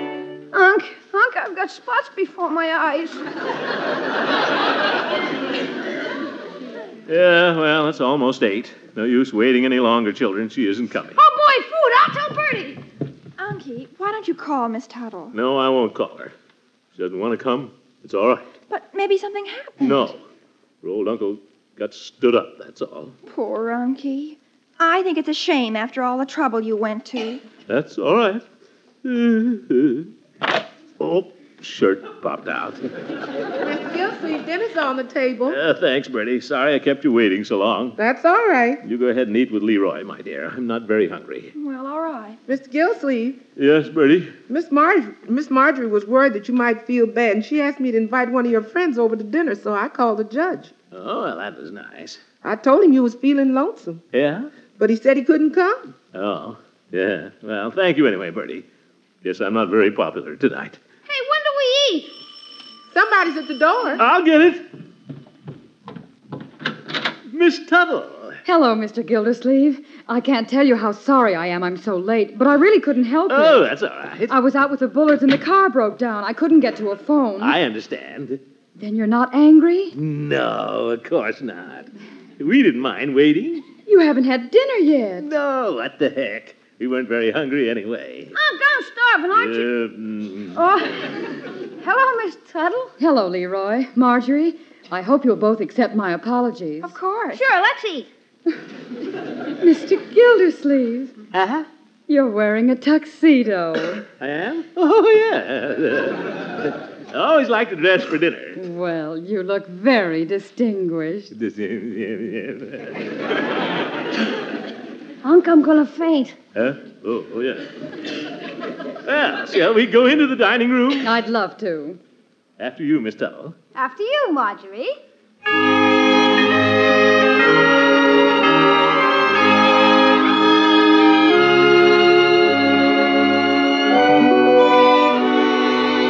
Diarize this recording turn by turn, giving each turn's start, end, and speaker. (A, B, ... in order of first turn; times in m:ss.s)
0:00.5-0:03.2 A
0:07.1-0:11.2 B
0:11.2-0:12.8 A
0:13.4-0:15.4 C
0:15.3-0:16.3 B
0:17.0-0:18.5 B
0:18.7-0:20.1 C
0:19.8-0:20.2 B
0:20.8-0:23.2 B
0:23.3-0:27.4 C
0:27.7-0:28.4 B
0:29.0-0:30.1 B
0:31.0-0:32.9 B
0:33.6-0:35.6 D
0:35.5-0:38.0 B
0:38.0-0:38.8 D
0:38.8-0:41.5 B
0:41.6-0:42.4 C
0:42.5-0:43.4 D
0:43.6-0:44.3 B
0:44.5-0:50.7 D
0:50.9-0:52.2 B
0:52.4-0:54.0 D
0:54.1-0:54.5 B
0:54.8-0:55.8 D
0:56.1-0:58.6 B
0:59.2-1:00.8 B
1:01.1-1:02.1 A
1:02.9-1:04.0 D
1:04.0-1:04.6 B
1:07.3-1:08.4 B
1:08.4-1:13.7 E
1:13.3-1:14.4 B
1:14.3-1:17.6 E
1:17.4-1:18.4 B
1:18.8-1:20.0 E
1:19.9-1:23.7 B
1:23.9-1:25.3 E
1:25.2-1:28.4 B
1:28.3-1:29.7 A
1:29.3-1:30.6 B
1:30.5-1:31.2 A
1:31.8-1:32.9 A
1:33.0-1:37.0 E
1:36.8-1:37.4 C
1:37.3-1:38.1 A
1:39.6-1:41.2 E
1:41.3-1:41.7 B
1:42.1-1:44.0 E
1:44.2-1:48.6 B
1:48.6-1:51.3 E
1:51.3-1:53.1 B
1:55.2-1:56.4 A
1:56.6-1:57.7 B
1:59.0-2:01.1 B
2:01.0-2:02.0 E
2:02.6-2:03.6 B
2:03.8-2:05.0 A